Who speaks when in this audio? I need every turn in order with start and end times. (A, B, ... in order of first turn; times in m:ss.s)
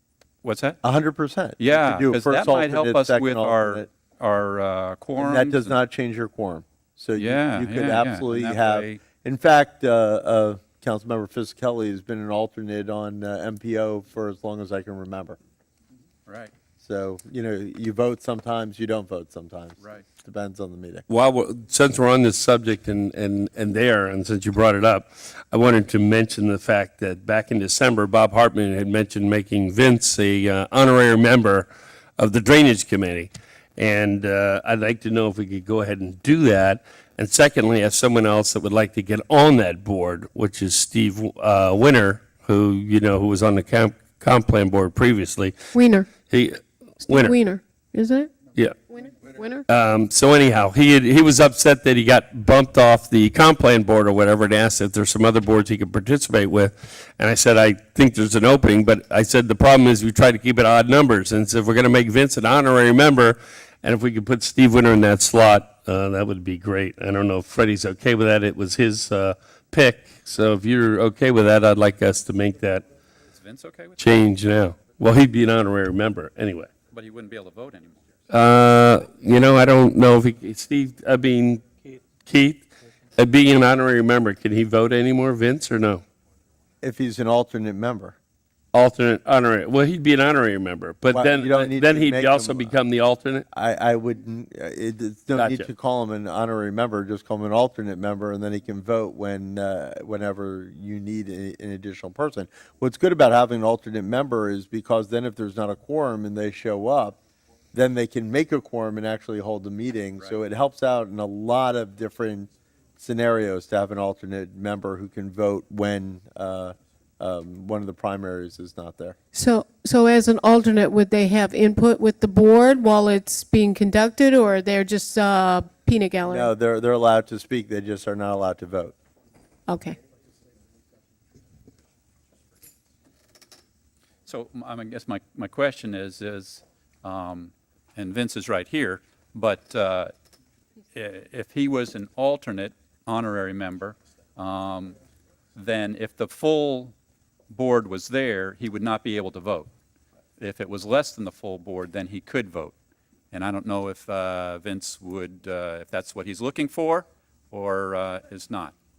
0:00.4-0:00.8 A
0:00.8-0:03.9 B
0:01.6-0:05.8 A
0:05.2-0:15.4 B
0:07.2-0:09.0 A
0:16.3-0:16.5 A
0:16.8-0:21.0 B
0:19.8-0:20.0 A
0:21.1-0:45.6 C
0:45.7-0:46.1 D
0:46.2-0:47.4 C
0:47.1-0:48.3 D
0:48.9-0:49.6 D
0:49.7-1:12.8 C
1:13.3-1:14.2 A
1:14.0-1:16.7 C
1:16.9-1:18.0 A
1:18.3-1:21.7 C
1:22.2-1:26.0 C
1:26.8-1:28.2 B
1:28.7-1:33.4 C
1:31.1-1:32.8 B
1:33.5-1:47.2 B
1:35.4-1:35.7 C
1:47.7-1:59.2 B
1:59.3-2:06.5 D
2:06.3-2:09.0 B
2:09.7-2:10.0 D
2:14.3-2:20.1 A
2:20.9-2:25.0 A
2:25.6-2:26.9 A
2:27.5-2:29.7 A
2:30.4-2:32.8 A
2:33.3-2:38.8 A